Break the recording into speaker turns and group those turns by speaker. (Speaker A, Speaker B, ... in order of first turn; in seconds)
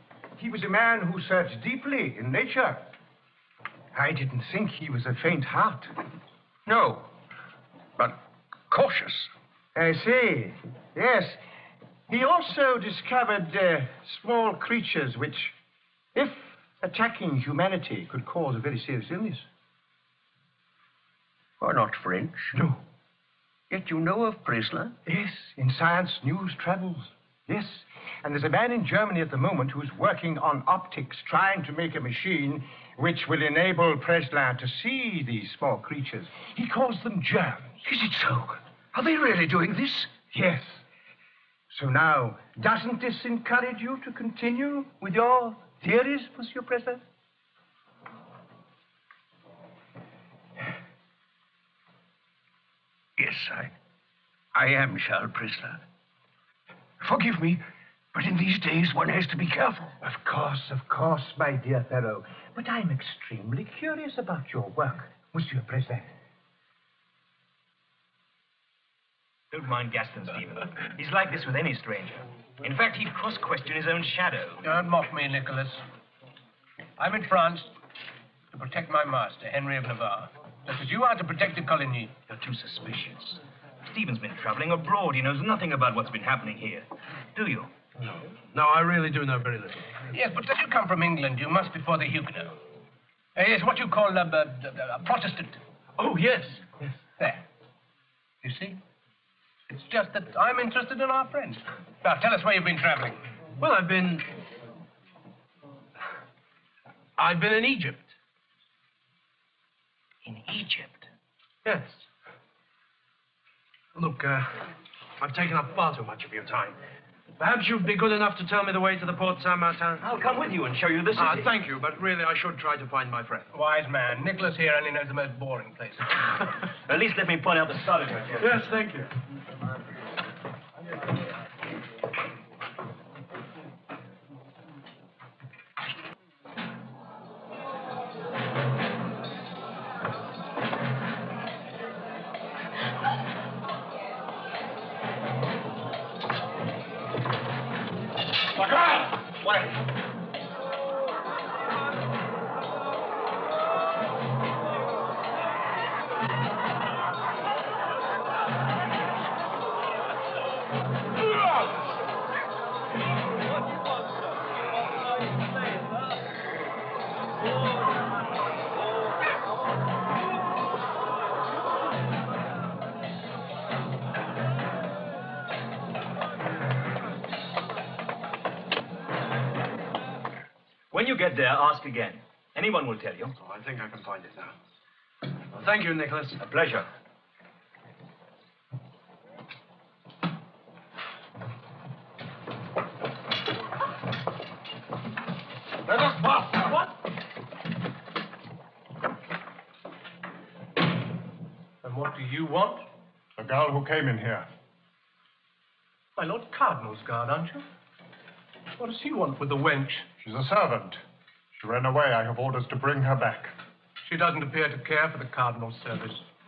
Speaker A: 0.4-2.9, 3.9-5.9, 9.8-11.4, 12.1-15.5, 16.1-19.4, 22.6-22.8, 25.1-37.8, 40.3-40.8, 41.7-47.0, 60.0-66.1
Speaker B: 6.7-7.1, 8.0-9.3, 21.6-22.6, 23.7-24.9, 37.8-40.1, 53.2-53.7, 54.5-55.8, 57.0-60.0
Speaker C: 69.5-74.6, 82.3-87.7, 110.2-111.1, 120.0-121.5, 126.9-128.6, 180.9-183.4, 186.4-186.9
Speaker D: 74.6-75.8, 77.0-77.7, 78.5-82.2, 90.1-92.6, 93.4-95.6, 99.7-103.2, 123.5-126.1, 201.8-202.9, 206.2-207.7, 208.8-210.1, 214.1-216.2
Speaker E: 88.0-90.0, 96.0-96.8, 98.4-98.8, 103.6-104.3, 107.2-108.1, 111.7-112.0, 114.0-116.8, 117.4-120.0, 121.2-123.5, 128.4-129.1, 183.4-184.6, 185.5-186.4
Speaker F: 148.6-149.8, 195.8-196.8, 203.4-204.5, 210.2-211.0, 211.6-213.5